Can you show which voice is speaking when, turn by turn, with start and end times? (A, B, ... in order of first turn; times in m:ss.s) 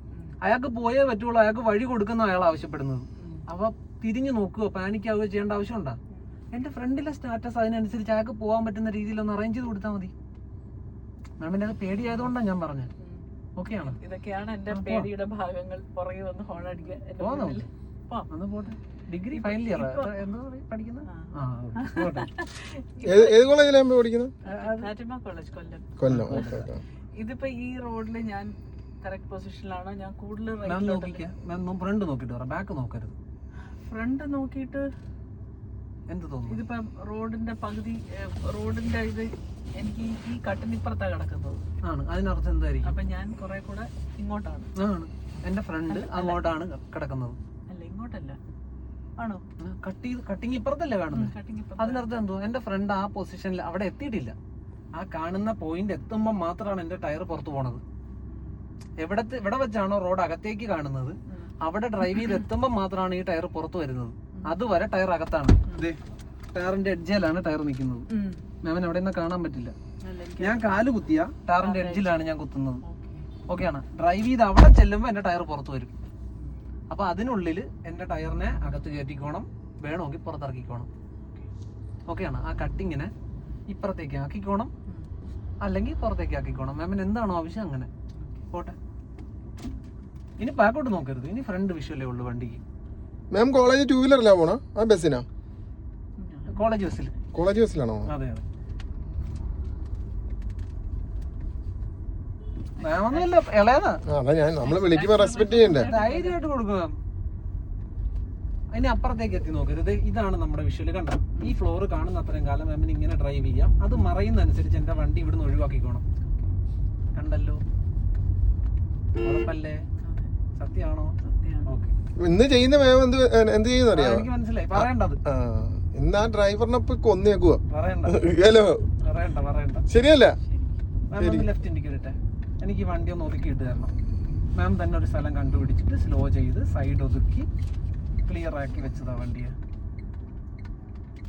0:00.1-0:00.4 A
0:00.4-0:06.0 B
0:03.2-0:03.4 A
0:06.5-0:10.1 B
0:11.4-0:12.9 B
0:12.0-0:12.3 A
0:13.0-0:13.2 A
0:13.6-0:14.0 B
0:13.8-0:18.3 A
0:14.7-0:15.1 B
0:17.2-0:17.7 B
0:18.3-0:22.3 B
0:19.3-0:20.1 A
0:21.1-0:23.5 A
0:23.0-0:24.3 C
0:24.4-0:24.9 B
0:24.5-0:26.6 A
0:26.0-0:26.8 C
0:26.0-0:26.7 B
0:27.2-0:31.3 A
0:30.6-0:33.2 B
0:33.9-0:34.9 A
0:36.1-0:36.6 B
0:36.5-0:41.6 A
0:41.8-0:43.0 B
0:42.8-0:44.7 A
0:44.8-0:47.4 B
0:45.9-0:46.4 A
0:47.7-0:48.4 A
0:49.2-0:49.4 A
0:49.6-0:54.3 B
0:51.1-0:52.1 A
0:54.9-0:57.8 B
0:58.3-0:58.6 A
0:59.0-1:06.0 B
1:01.3-1:01.5 A
1:02.1-1:02.4 A
1:06.5-1:08.1 B
1:08.1-1:08.4 A
1:08.6-1:09.7 B
1:10.0-1:10.9 A
1:10.4-1:12.8 B
1:11.6-1:12.3 A
1:12.8-1:13.3 A
1:13.5-1:15.9 B
1:16.9-1:20.9 B
1:21.2-1:21.5 A
1:22.1-1:23.1 B
1:23.7-1:24.7 B
1:25.6-1:27.9 B
1:30.4-1:32.6 B
1:33.3-1:35.2 C
1:36.2-1:36.8 A
1:36.5-1:37.1 B
1:37.3-1:38.1 C
1:38.1-1:38.4 B
1:42.8-1:43.3 A
1:42.8-1:44.0 B
1:44.0-1:45.9 C
1:44.6-1:46.4 A
1:45.8-1:47.0 B
1:48.7-1:56.0 B
1:57.1-1:57.6 B
1:59.2-1:59.8 B
2:00.0-2:00.3 A
2:00.6-2:01.1 B
2:01.2-2:01.7 A
2:01.6-2:01.9 B
2:02.2-2:08.9 C
2:03.9-2:05.2 B
2:07.7-2:08.2 B
2:09.0-2:09.8 B
2:09.9-2:10.4 C
2:10.4-2:10.7 A
2:11.1-2:13.9 B
2:11.2-2:11.5 C
2:14.5-2:17.5 B
2:18.2-2:19.5 B